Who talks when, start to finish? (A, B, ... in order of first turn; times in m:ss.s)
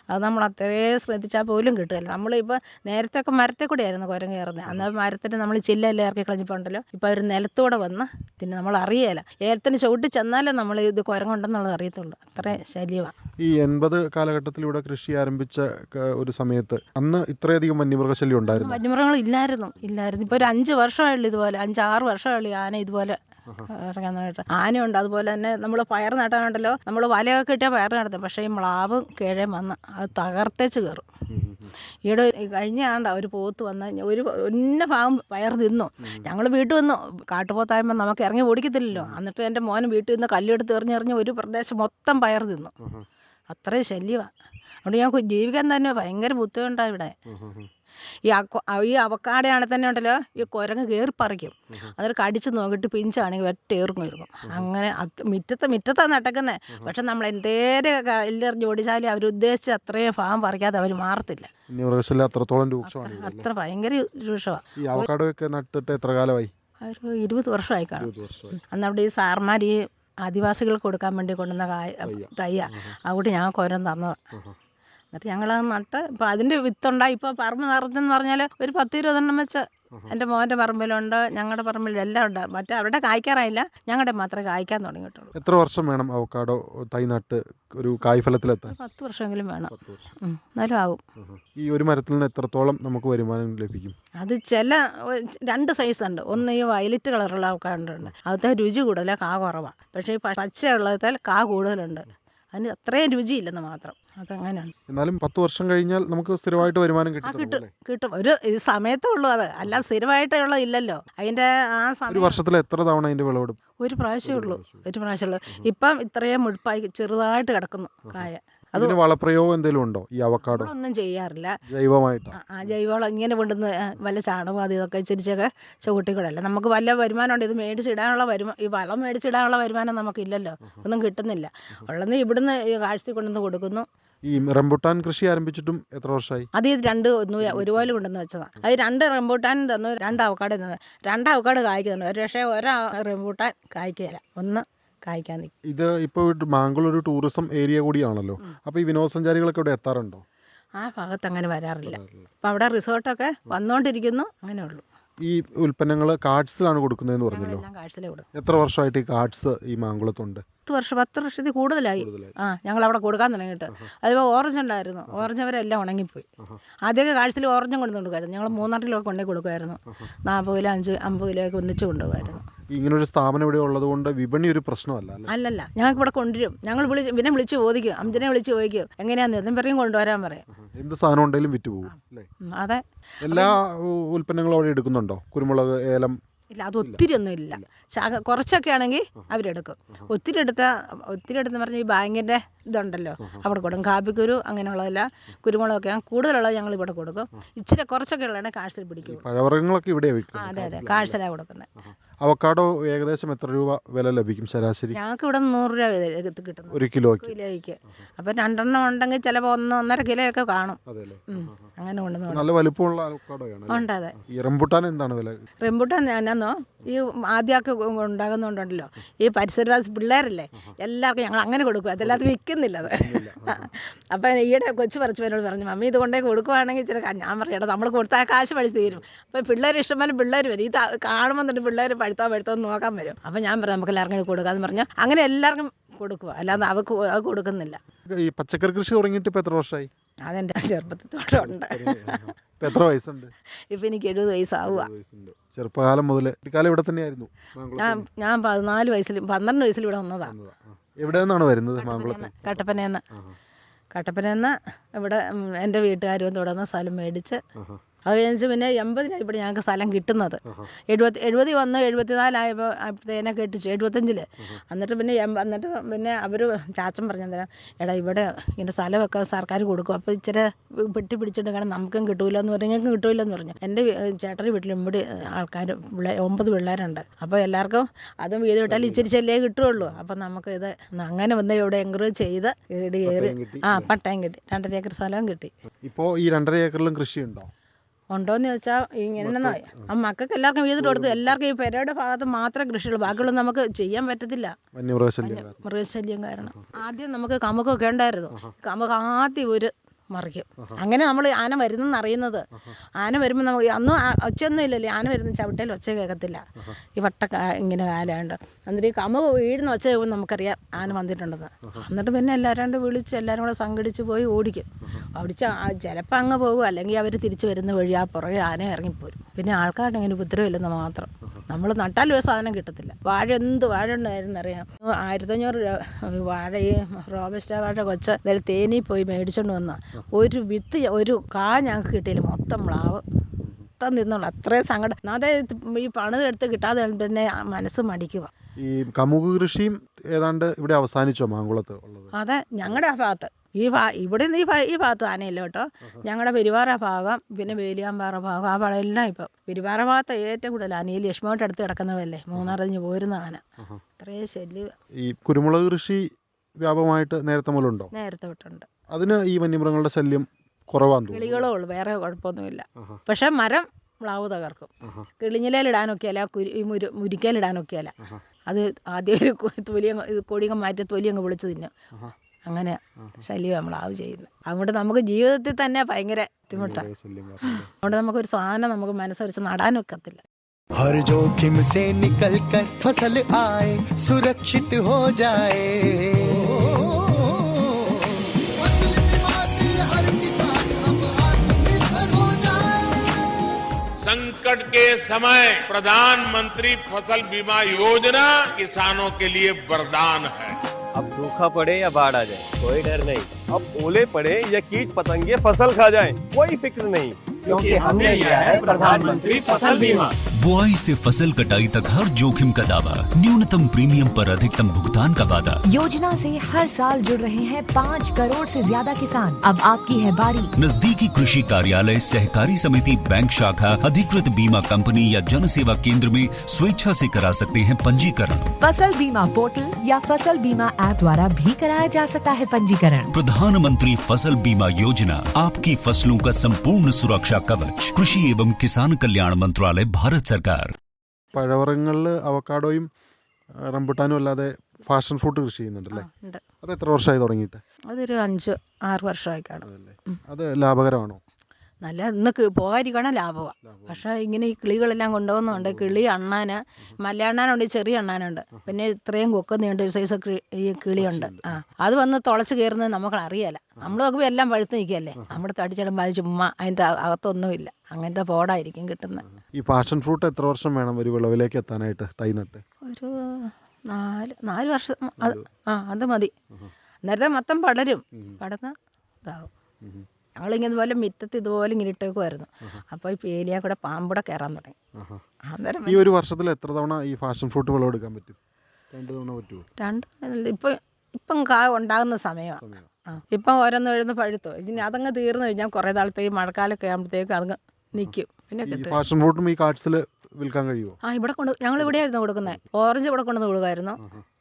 0:00.1-0:13.1 A
0:13.4-0:18.8 B
0:18.5-0:23.2 A
0:23.7-0:31.0 A
0:31.3-0:31.7 B
0:32.1-0:42.7 A
0:38.9-0:39.2 B
0:43.5-0:44.3 A
0:44.8-0:47.2 A
0:47.3-0:47.7 B
0:48.3-1:01.5 A
1:01.7-1:03.5 B
1:02.8-1:05.1 A
1:04.8-1:06.5 B
1:06.8-1:14.2 A
1:08.0-1:08.6 B
1:12.0-1:12.9 B
1:15.1-1:25.3 A
1:25.3-1:28.7 B
1:28.7-1:31.0 A
1:29.7-1:30.1 B
1:31.2-1:33.9 B
1:34.2-1:44.7 A
1:44.9-1:47.7 B
1:47.2-1:52.4 A
1:52.1-1:53.6 B
1:53.8-1:59.0 A
1:54.2-1:54.8 B
1:58.1-2:00.7 B
2:00.4-2:01.6 A
2:01.7-2:02.3 B
2:02.3-2:13.8 A
2:14.2-2:16.5 B
2:16.5-2:25.5 A
2:17.4-2:17.9 B
2:25.6-2:30.2 B
2:30.8-2:34.8 A
2:31.8-2:32.3 B
2:35.2-2:37.6 B
2:37.3-2:38.3 A
2:38.3-2:40.4 B
2:40.7-2:46.3 A
2:42.0-2:42.3 B
2:46.8-2:52.4 A
2:52.7-2:55.3 B
2:55.3-3:00.4 A
3:00.5-3:02.3 B
3:01.9-3:03.6 A
3:03.2-3:06.2 B
3:06.5-3:19.2 A
3:19.0-3:21.2 B
3:20.3-3:21.7 A
3:21.8-3:25.0 B
3:24.9-3:32.5 A
3:26.7-3:27.3 B
3:30.8-3:31.7 B
3:32.3-3:35.5 B
3:33.7-3:34.2 A
3:35.6-3:57.8 A
3:42.8-3:43.7 B
3:58.1-3:59.9 B
4:00.2-4:02.3 A
4:01.4-4:03.3 B
4:03.7-4:04.9 A
4:04.6-4:08.1 B
4:07.8-4:10.3 A
4:10.2-4:13.4 B
4:11.8-4:13.0 A
4:13.9-4:17.4 A
4:17.6-4:17.8 B
4:18.0-4:45.5 A
4:38.7-4:39.1 B
4:43.0-4:43.9 B
4:45.8-4:47.5 B
4:48.1-4:54.5 A
4:49.2-4:49.9 B
4:50.8-4:51.3 B
4:54.7-4:55.6 B
4:55.2-5:02.4 A
5:03.0-5:33.0 A
5:33.8-5:38.3 A
5:38.6-5:42.1 B
5:42.1-5:53.4 A
5:54.0-5:54.7 A
5:55.0-5:56.0 B
5:56.6-5:57.9 B
5:57.9-5:58.7 A
5:58.9-6:01.5 B
6:01.1-6:07.9 A
6:04.8-6:05.1 B
6:08.5-6:11.7 A
6:12.5-6:16.9 A
6:16.5-6:17.7 B
6:17.4-6:20.2 A
6:20.8-6:27.5 C
6:28.6-6:33.1 C
6:34.0-6:40.5 D
6:40.9-6:50.0 E
6:47.5-6:49.4 D
6:50.4-6:55.6 F
6:55.7-7:00.5 G
7:00.6-7:08.5 F
7:08.6-7:13.1 G
7:13.1-7:20.7 F
7:21.3-7:22.9 B
7:23.5-7:26.1 B
7:25.9-7:26.4 A
7:26.6-7:27.6 B
7:27.9-7:29.6 A
7:29.6-7:31.2 B
7:31.8-7:49.2 A
7:33.6-7:34.0 B
7:35.5-7:36.0 B
7:41.0-7:41.5 B
7:49.3-7:52.6 B
7:52.8-7:56.3 A
7:57.0-7:59.5 A
8:00.4-8:04.8 A
8:04.9-8:05.2 B
8:05.4-8:06.1 A
8:05.9-8:08.4 B
8:08.9-8:09.7 B
8:09.8-8:19.0 A
8:12.6-8:12.9 B
8:18.6-8:21.0 B
8:21.0-8:24.0 A